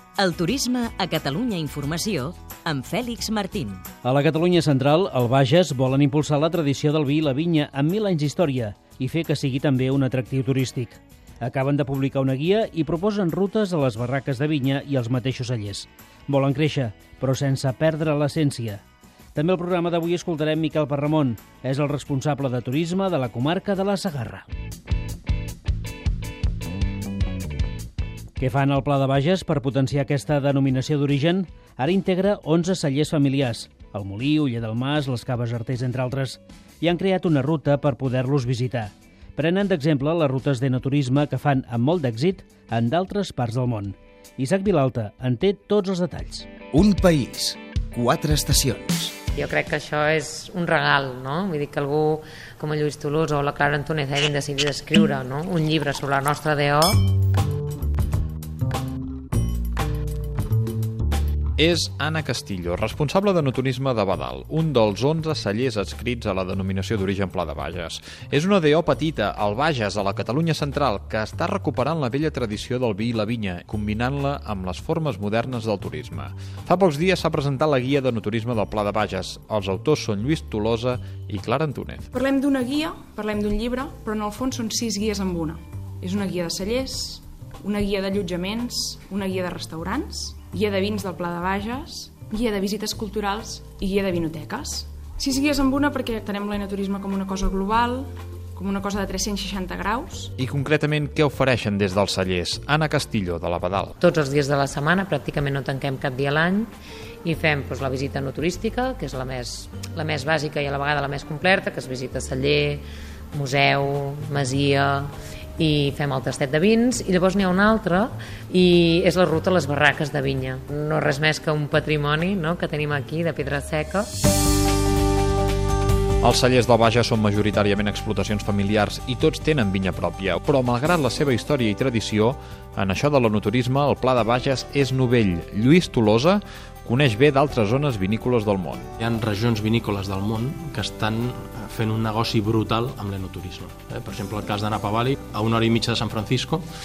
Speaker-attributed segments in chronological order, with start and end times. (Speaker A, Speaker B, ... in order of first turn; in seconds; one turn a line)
Speaker A: 0.2-3.8
Speaker B: 4.0-18.8
Speaker B: 19.3-24.5
Speaker B: 28.4-46.5
Speaker C: 46.7-49.1
Speaker D: 49.4-57.0
Speaker E: 61.6-82.0
Speaker F: 82.1-100.3
Speaker E: 100.4-103.9
Speaker D: 104.0-106.7
Speaker D: 107.2-124.1
Speaker E: 126.2-138.8
Speaker G: 139.0-146.6